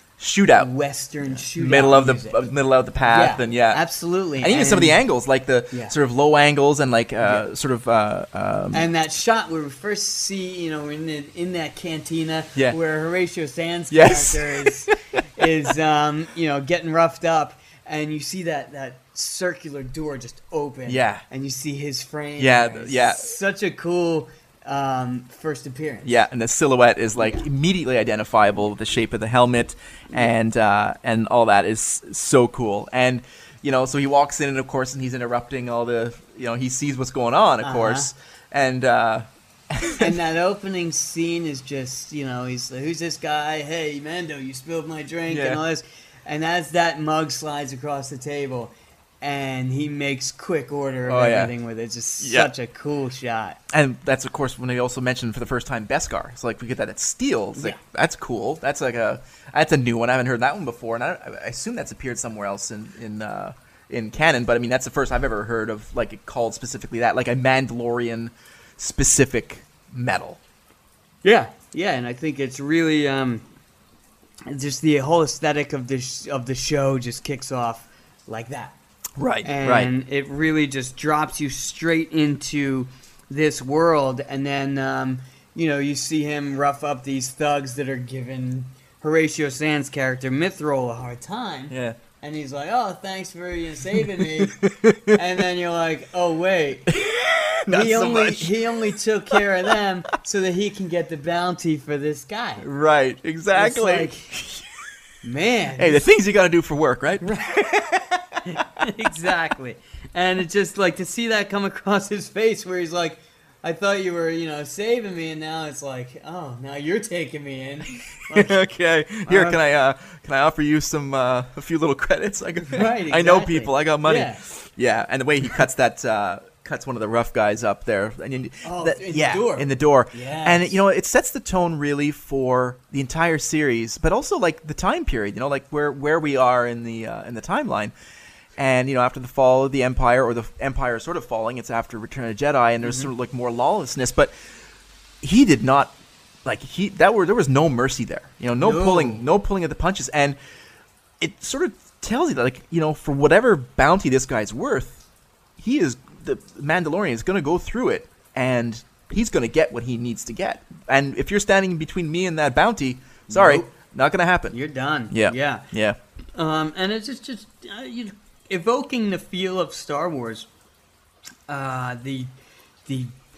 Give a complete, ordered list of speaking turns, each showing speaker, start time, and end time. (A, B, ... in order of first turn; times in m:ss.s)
0:00.2-0:00.7 A
0:00.6-0:02.5 B
0:01.4-0:03.8 A
0:03.0-0:05.0 B
0:04.4-0:08.9 A
0:08.7-0:26.2 B
0:13.9-0:14.9 A
0:20.9-0:21.2 A
0:22.4-0:23.3 A
0:26.0-0:40.2 A
0:27.2-0:27.5 B
0:37.6-0:38.1 B
0:40.0-0:53.6 B
0:45.3-0:45.6 A
0:51.1-0:51.5 A
0:52.2-0:52.5 A
0:53.7-1:10.4 A
1:11.2-1:13.4 B
1:14.5-1:18.8 B
1:19.2-1:19.9 A
1:19.4-1:37.0 B
1:31.7-1:32.0 A
1:34.4-1:35.1 A
1:36.9-1:38.6 A
1:37.7-1:42.6 B
1:42.6-1:44.7 A
1:43.5-1:44.3 B
1:45.2-1:46.0 B
1:45.8-1:48.5 A
1:47.2-1:47.7 B
1:48.4-1:58.6 B
1:58.3-2:17.9 A
1:59.3-1:59.6 B
2:02.7-2:04.4 B
2:08.6-2:10.8 B
2:18.6-2:24.3 A
2:22.8-2:23.1 B
2:25.2-2:25.9 A
2:26.4-2:30.4 A
2:28.6-2:29.2 B
2:31.2-2:35.0 A
2:35.6-2:44.6 A
2:43.3-2:43.7 B
2:44.5-2:45.6 B
2:45.1-2:46.0 A
2:46.4-2:50.5 B
2:51.5-2:52.3 B
2:52.9-2:53.2 B